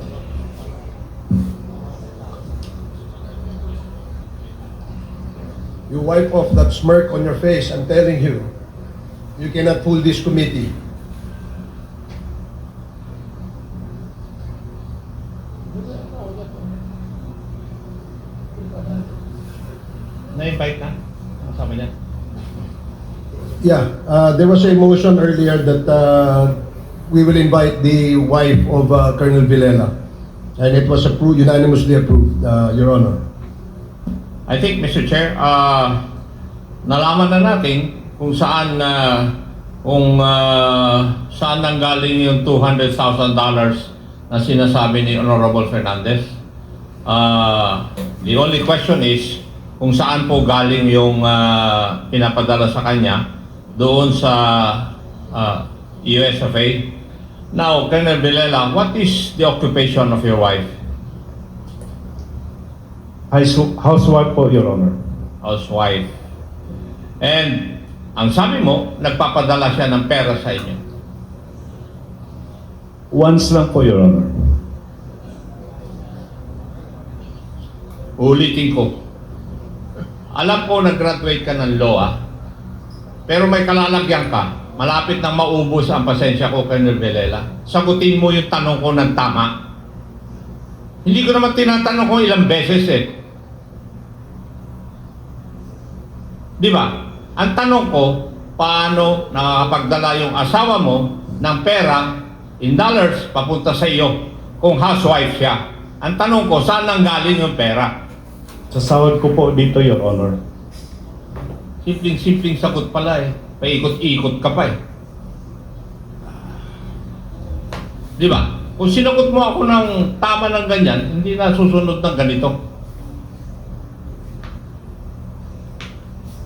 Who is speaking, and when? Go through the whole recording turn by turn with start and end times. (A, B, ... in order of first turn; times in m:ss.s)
0:05.9-0:08.5 A
0:09.4-0:10.7 A
0:20.3-0:21.9 B
0:23.6-0:26.5 A
0:27.1-0:29.9 A
0:30.6-0:33.2 A
0:34.5-0:36.0 B
0:36.8-0:46.3 B
0:47.1-0:53.2 B
0:53.8-0:57.0 B
0:57.5-1:00.7 B
1:03.3-1:05.0 C
1:05.4-1:06.1 B
1:07.2-1:10.8 B
1:13.1-1:14.3 C
1:18.2-1:18.9 B
1:20.3-1:22.2 B
1:23.3-1:29.6 B
1:31.0-1:33.1 B
1:36.6-1:47.9 B
1:48.7-1:50.4 C
1:51.8-1:54.8 B
1:58.2-2:02.6 B